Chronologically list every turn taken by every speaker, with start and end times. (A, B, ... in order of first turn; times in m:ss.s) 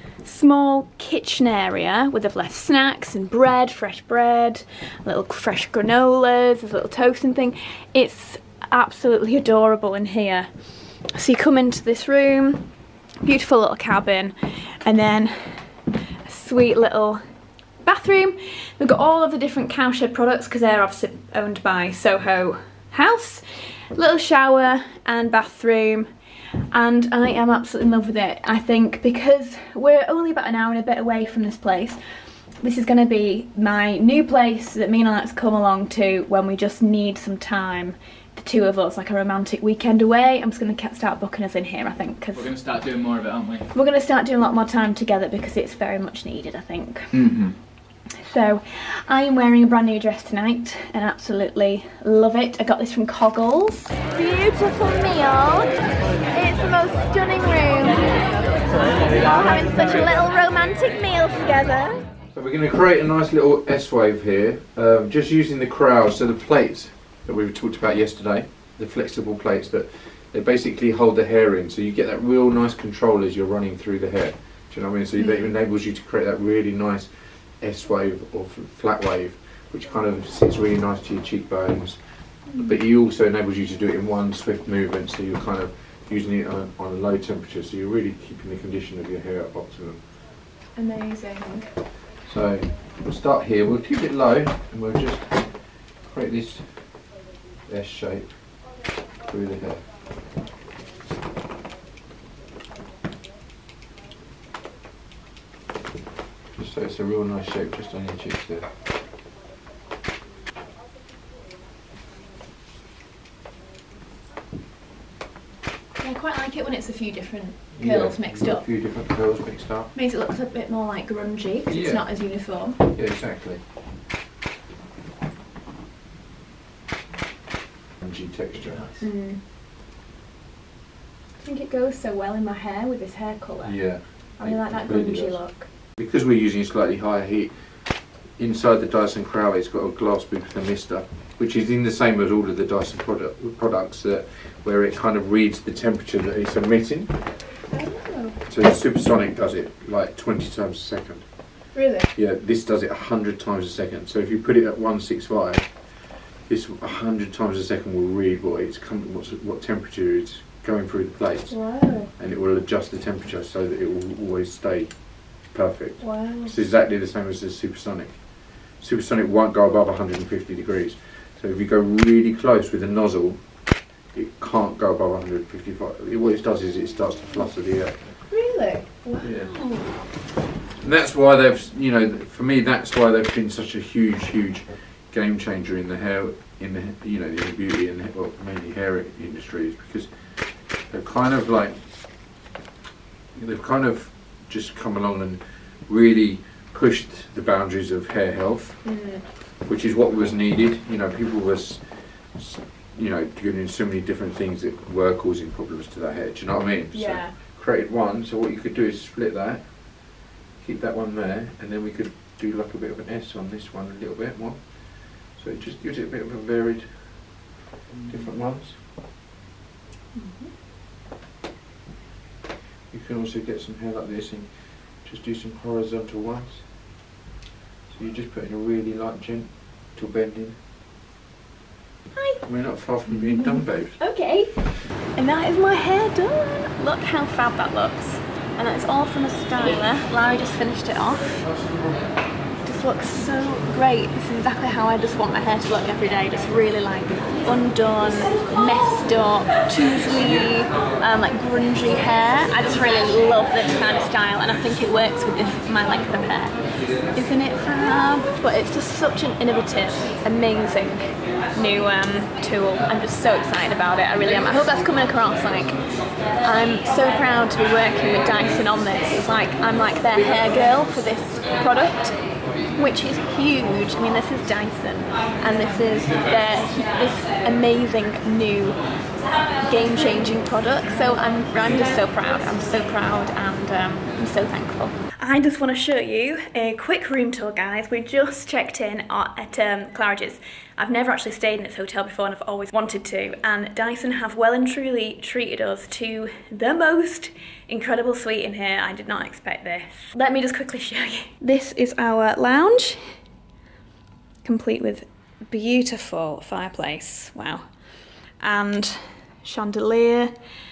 0:00.2-0:10.5 A
0:11.1-0:12.7 A
0:13.2-0:15.7 A
0:16.2-0:17.2 A
0:17.8-0:26.1 A
0:26.7-0:32.0 A
0:32.6-0:42.5 A
0:42.3-0:43.7 B
0:43.7-0:47.2 A
0:47.1-0:47.6 B
0:48.1-0:55.8 A
0:56.3-1:02.0 A
0:58.8-1:00.0 B
1:02.3-1:30.0 C
1:15.2-1:15.5 A
1:22.4-1:22.8 A
1:30.7-1:31.7 A
1:32.2-1:37.1 C
1:37.6-1:39.9 C
1:46.5-1:48.7 C
1:56.0-1:58.6 A
1:57.8-1:59.9 C
1:59.9-2:02.8 A
2:01.7-2:02.0 C
2:02.8-2:03.6 C
2:08.0-2:09.0 C
2:09.0-2:09.4 A
2:11.4-2:15.7 A
2:13.6-2:27.4 C
2:27.7-2:28.4 A
2:28.4-2:53.6 C
2:31.7-2:32.1 A
2:41.5-2:42.1 A
2:46.0-2:46.5 A
2:54.1-2:58.3 C
2:58.3-2:59.9 A
2:59.2-3:00.0 C
3:00.8-3:11.8 C
3:13.3-3:19.0 C
3:18.8-3:19.2 A
3:19.6-3:37.5 C
3:26.9-3:27.3 A
3:38.0-3:38.8 C
3:40.1-3:40.5 A
3:42.9-3:46.6 C
3:47.9-3:50.6 C
3:52.1-3:52.4 A
3:52.4-3:54.0 C
3:53.0-3:54.6 A
3:55.2-4:01.5 A
4:02.6-4:16.6 A
4:17.1-4:25.8 A
4:26.4-4:38.8 A
4:39.6-5:03.0 A
5:04.4-5:07.6 A
5:08.4-5:10.3 A